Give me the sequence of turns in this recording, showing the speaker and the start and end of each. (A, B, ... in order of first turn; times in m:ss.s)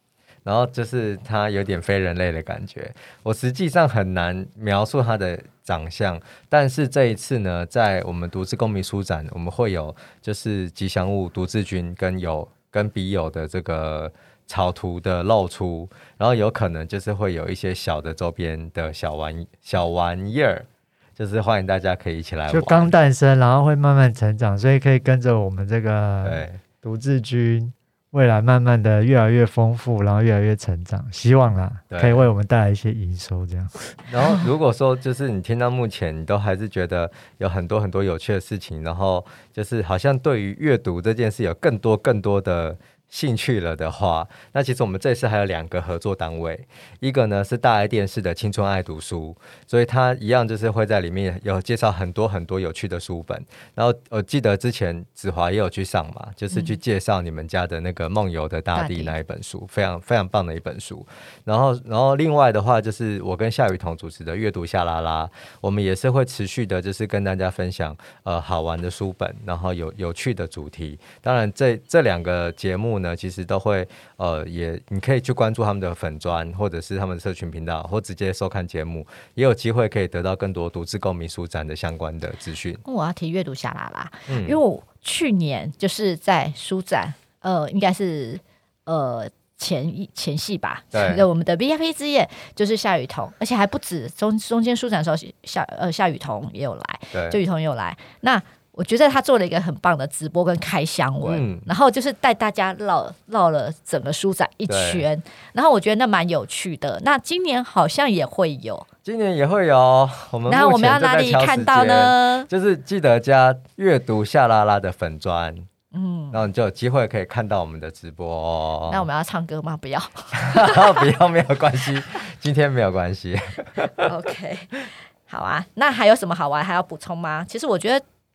0:00.4-0:22.9 A
0:22.5-0:34.0 B
0:26.2-0:26.6 A
0:31.9-0:32.3 A
0:34.1-1:22.8 A
0:56.5-0:56.8 C
0:58.7-0:59.2 C
1:22.8-1:48.9 C
1:24.3-1:24.6 A
1:30.9-1:31.2 A
1:37.1-1:37.4 A
1:41.2-1:41.7 A
1:44.7-1:45.0 A
1:49.0-1:55.7 A
1:50.5-1:52.5 C
1:55.9-1:56.5 C
1:56.3-1:59.0 A
1:58.9-2:01.1 C
2:00.4-2:04.1 A
2:04.0-2:08.0 C